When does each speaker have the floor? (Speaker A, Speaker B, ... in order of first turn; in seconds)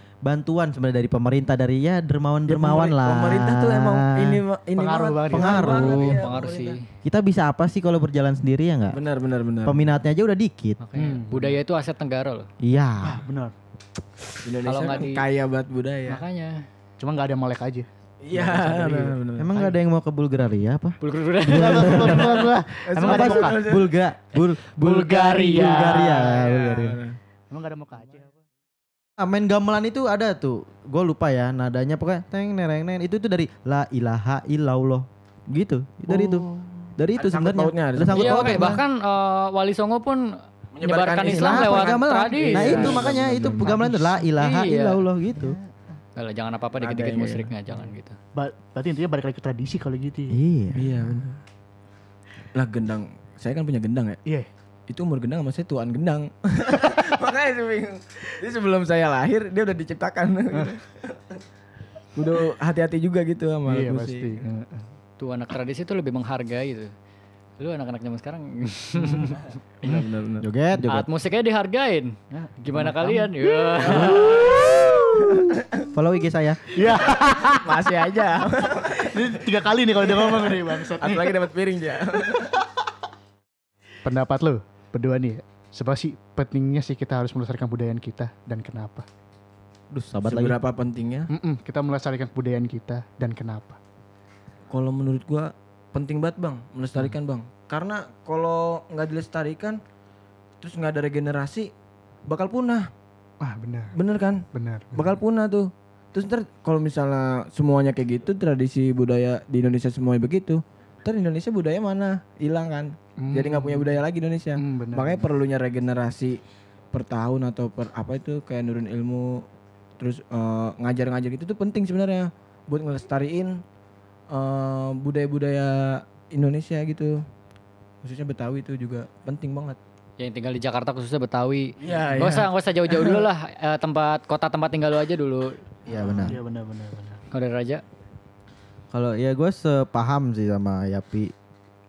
Speaker A: 0.2-4.4, 5.3-6.2, 7.0-9.0, 9.6-10.8, 12.6-13.2, 19.4-27.0, 29.2-36.4, 37.0-38.8, 41.2-45.6, 50.3-50.9, 70.4-71.1, 73.9-76.6, 89.9-90.5, 135.9-136.4, 138.9-141.3
Speaker B: 2.5-6.8, 8.9-9.9, 14.4-16.2, 18.2-19.5, 22.8-24.0, 26.2-27.2, 36.1-38.8, 40.7-43.8, 46.8-47.5, 50.7-51.4, 52.5-54.2, 54.9-61.3, 62.1-64.4, 69.8-70.5, 73.9-75.9, 77.0-79.4, 80.0-82.6, 90.3-91.3, 94.7-99.8, 100.6-101.7, 102.3-102.9, 103.9-116.4, 116.9-119.4, 120.0-123.6, 124.3-127.2, 128.0-129.8, 131.8-133.2
Speaker C: 4.8-6.2, 11.0-11.6, 13.0-13.5, 17.0-19.8, 21.5-23.6, 25.2-26.9, 27.5-28.4, 42.6-44.3, 45.3-45.7, 48.3-50.4, 63.7-64.9, 69.0-69.3, 72.3-74.8, 76.7-77.8, 78.8-81.4, 84.0-89.0, 91.3-93.8, 103.4-103.9, 104.5-105.1, 113.2-113.9, 114.6-115.3, 135.9-137.2
Speaker D: 6.0-6.9, 10.8-12.5, 14.6-15.2, 16.1-16.6, 21.0-22.4, 24.4-26.4, 38.1-43.0, 44.4-45.0, 46.1-48.2, 65.2-66.9, 67.6-69.5, 70.8-74.6, 130.2-135.6, 137.3-137.8